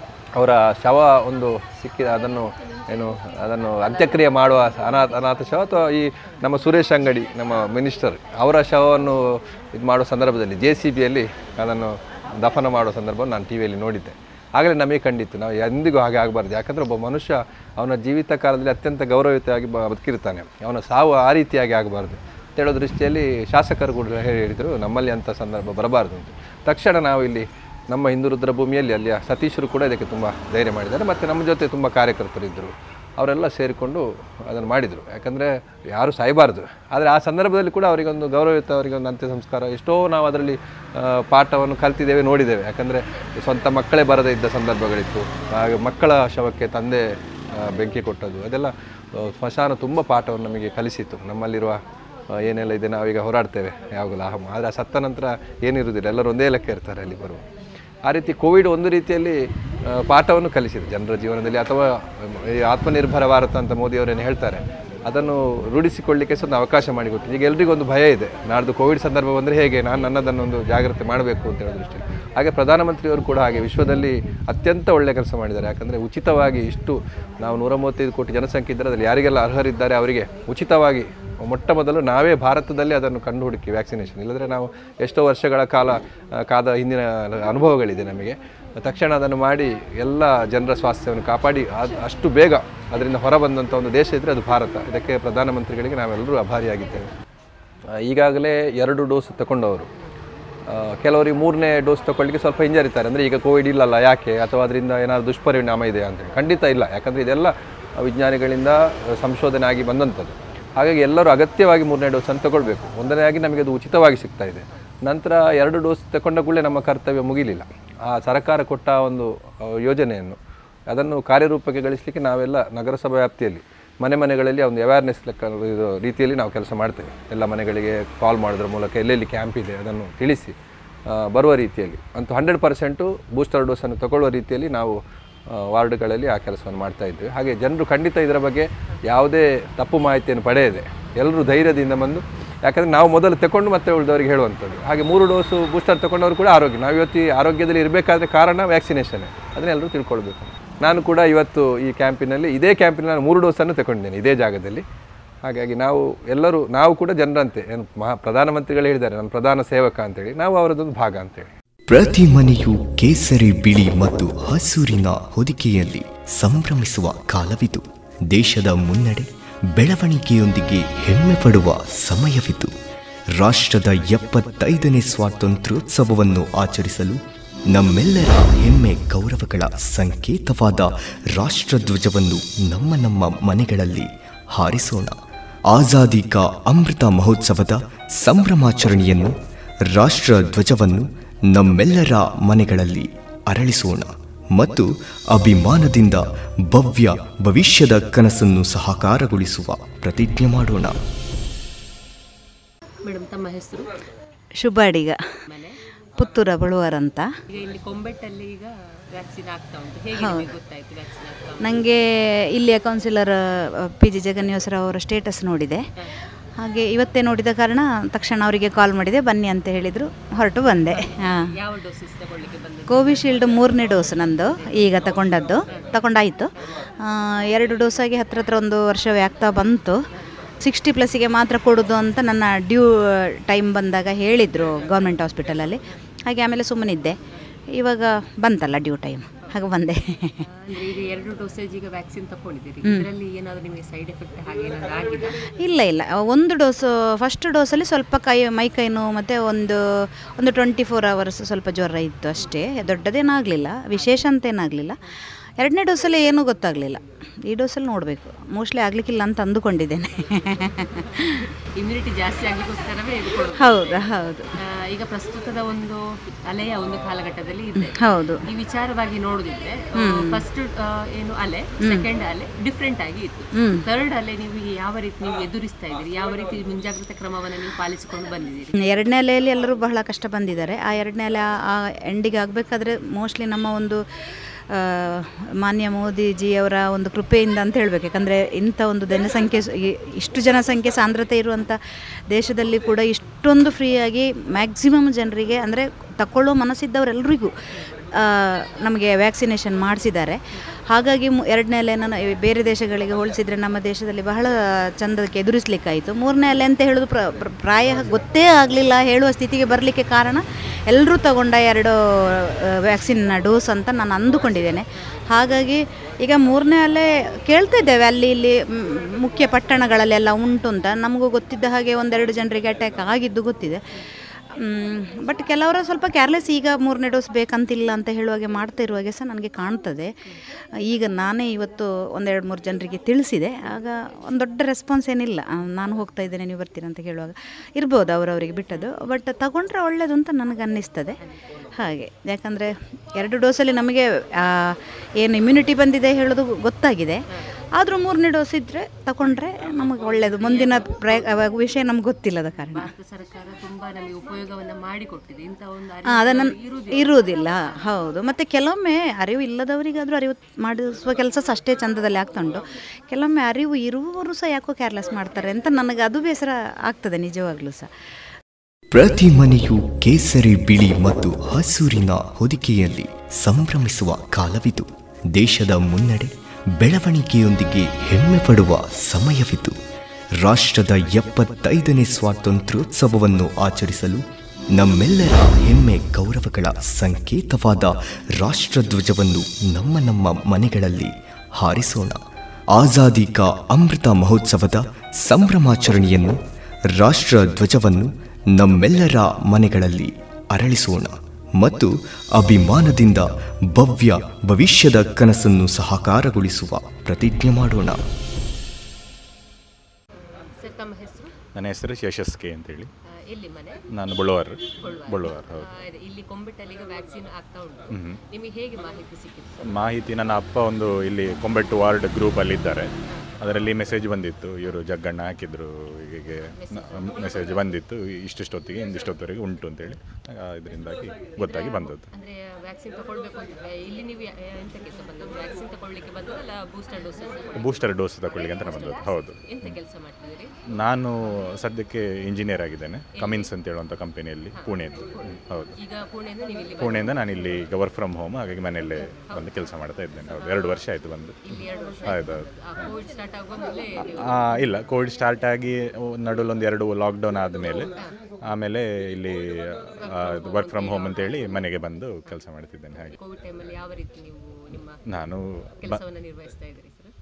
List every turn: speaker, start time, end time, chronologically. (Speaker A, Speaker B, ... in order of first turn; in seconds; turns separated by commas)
Speaker A: 0.3-47.0, Speaker A: 47.6-51.8, Speaker A: 52.3-57.4, Speaker A: 58.0-59.4, Speaker A: 59.9-97.1, Speaker A: 98.0-99.9, Speaker A: 100.7-120.4, Speaker A: 120.9-130.5, Speaker A: 131.1-135.0, Speaker A: 135.5-154.8, Speaker A: 155.4-161.5, Speaker B: 161.9-172.7, Speaker B: 173.3-177.2, Speaker B: 177.7-185.2, Speaker B: 185.7-189.3, Speaker B: 189.9-200.9, Speaker C: 203.0-203.9, Speaker D: 204.6-205.2, Speaker C: 205.5-205.8, Speaker D: 206.2-207.2, Speaker C: 207.5-211.8, Speaker D: 210.1-210.5, Speaker D: 211.6-215.8, Speaker D: 216.6-221.5, Speaker C: 220.8-224.7, Speaker D: 222.9-230.0, Speaker C: 225.7-226.0, Speaker D: 230.6-237.2, Speaker D: 237.7-240.4, Speaker C: 240.5-245.4, Speaker D: 242.8-243.1, Speaker D: 245.5-249.8, Speaker D: 250.4-255.0, Speaker D: 255.6-261.3, Speaker C: 261.8-263.9, Speaker D: 263.5-264.5, Speaker C: 264.8-278.7, Speaker D: 267.8-268.4, Speaker D: 270.0-270.4, Speaker D: 271.8-272.1, Speaker D: 273.5-273.8, Speaker D: 278.8-284.0, Speaker D: 284.7-291.8, Speaker D: 292.3-341.1, Speaker D: 341.7-347.2, Speaker D: 347.8-352.9, Speaker C: 350.3-351.1, Speaker C: 352.7-357.7, Speaker D: 356.0-367.9, Speaker B: 368.9-379.7, Speaker B: 380.4-384.2, Speaker B: 384.8-392.2, Speaker B: 392.7-396.4, Speaker B: 396.9-408.0, Speaker C: 410.5-411.3, Speaker E: 411.5-412.9, Speaker C: 413.3-413.8, Speaker E: 413.9-415.7, Speaker C: 414.8-419.6, Speaker E: 417.9-418.2, Speaker E: 419.6-432.1, Speaker C: 426.6-427.6, Speaker C: 431.4-440.5, Speaker E: 437.5-439.8, Speaker E: 440.8-445.7, Speaker C: 443.2-443.5, Speaker C: 444.6-445.2, Speaker C: 445.8-447.4, Speaker E: 446.8-452.9, Speaker C: 449.3-449.6, Speaker C: 450.2-450.8, Speaker C: 451.5-454.7, Speaker E: 454.0-457.9, Speaker E: 458.5-463.1, Speaker C: 460.0-461.6, Speaker C: 463.1-465.0, Speaker E: 465.1-466.0, Speaker C: 465.8-467.1